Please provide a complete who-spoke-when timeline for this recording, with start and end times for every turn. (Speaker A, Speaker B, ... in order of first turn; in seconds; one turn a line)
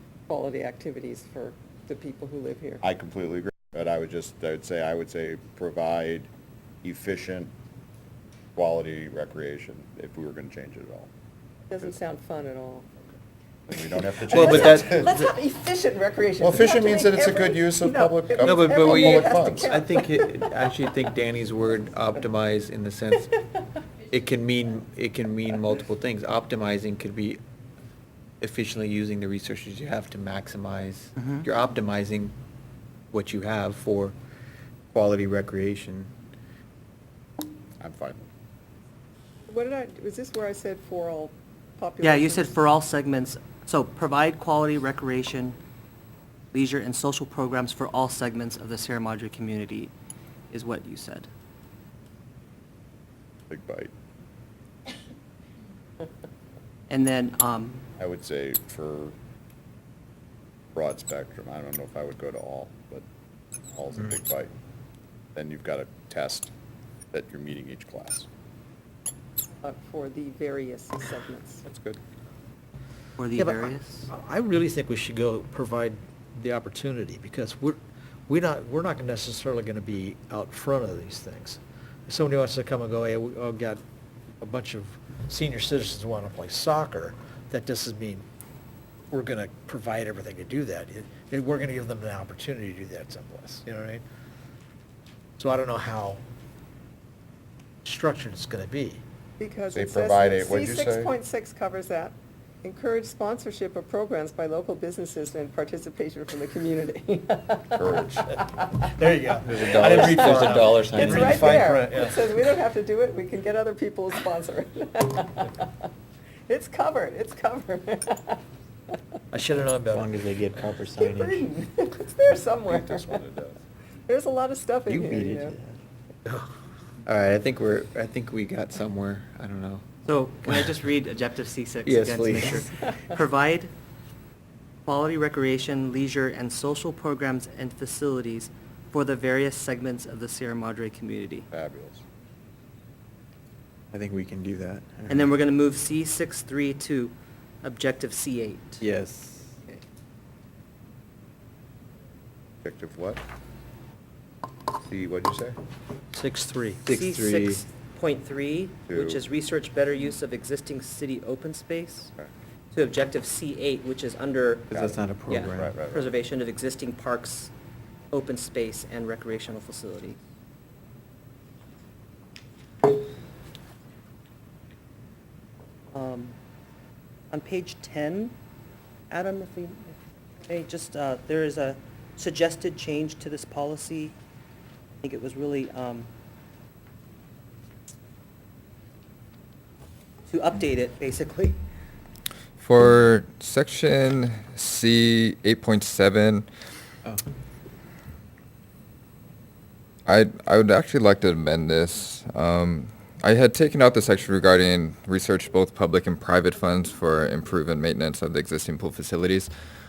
Speaker A: 0.3-2.8
Speaker B: 2.8-6.3
Speaker B: 6.8-7.5
Speaker B: 8.6-11.1
Speaker A: 11.7-12.9
Speaker B: 13.7-15.2
Speaker C: 14.3-15.0
Speaker A: 14.3-20.5
Speaker B: 16.4-19.7
Speaker C: 18.4-23.3
Speaker C: 24.1-27.4
Speaker C: 28.4-32.4
Speaker D: 31.2-31.5
Speaker C: 33.1-34.2
Speaker C: 34.9-36.1
Speaker B: 37.8-38.3
Speaker A: 39.5-42.6
Speaker D: 42.0-45.6
Speaker D: 46.5-49.9
Speaker D: 50.5-51.3
Speaker B: 53.5-53.9
Speaker D: 56.9-57.9
Speaker B: 58.0-59.1
Speaker B: 60.8-63.0
Speaker B: 63.7-64.5
Speaker B: 65.3-66.5
Speaker B: 67.1-68.3
Speaker A: 69.6-71.7
Speaker B: 71.7-72.0
Speaker D: 73.2-74.1
Speaker E: 73.4-83.8
Speaker E: 84.4-88.2
Speaker E: 89.1-94.0
Speaker E: 95.4-96.2
Speaker E: 97.8-99.0
Speaker A: 99.4-108.1
Speaker B: 99.7-101.1
Speaker B: 107.8-108.2
Speaker E: 108.8-112.4
Speaker C: 109.5-111.4
Speaker A: 109.8-115.8
Speaker A: 116.5-118.4
Speaker E: 119.3-120.1
Speaker C: 119.9-121.4
Speaker A: 120.9-123.2
Speaker B: 122.7-123.6
Speaker A: 124.1-125.6
Speaker C: 124.9-125.8
Speaker C: 127.1-129.9
Speaker D: 130.1-133.7
Speaker C: 131.8-132.7
Speaker D: 134.9-141.5
Speaker B: 141.5-142.0
Speaker C: 143.9-145.3
Speaker D: 145.1-148.8
Speaker C: 148.8-149.6
Speaker B: 152.6-153.2
Speaker B: 154.8-155.6
Speaker E: 156.2-156.8
Speaker C: 156.8-157.6
Speaker D: 156.9-162.1
Speaker B: 158.9-159.2
Speaker D: 162.7-167.5
Speaker C: 164.7-165.8
Speaker B: 165.6-166.1
Speaker D: 168.1-170.2
Speaker D: 175.9-176.3
Speaker D: 177.3-178.3
Speaker D: 179.1-184.2
Speaker D: 185.0-186.1
Speaker D: 190.3-191.6
Speaker F: 192.6-196.5
Speaker F: 200.1-209.5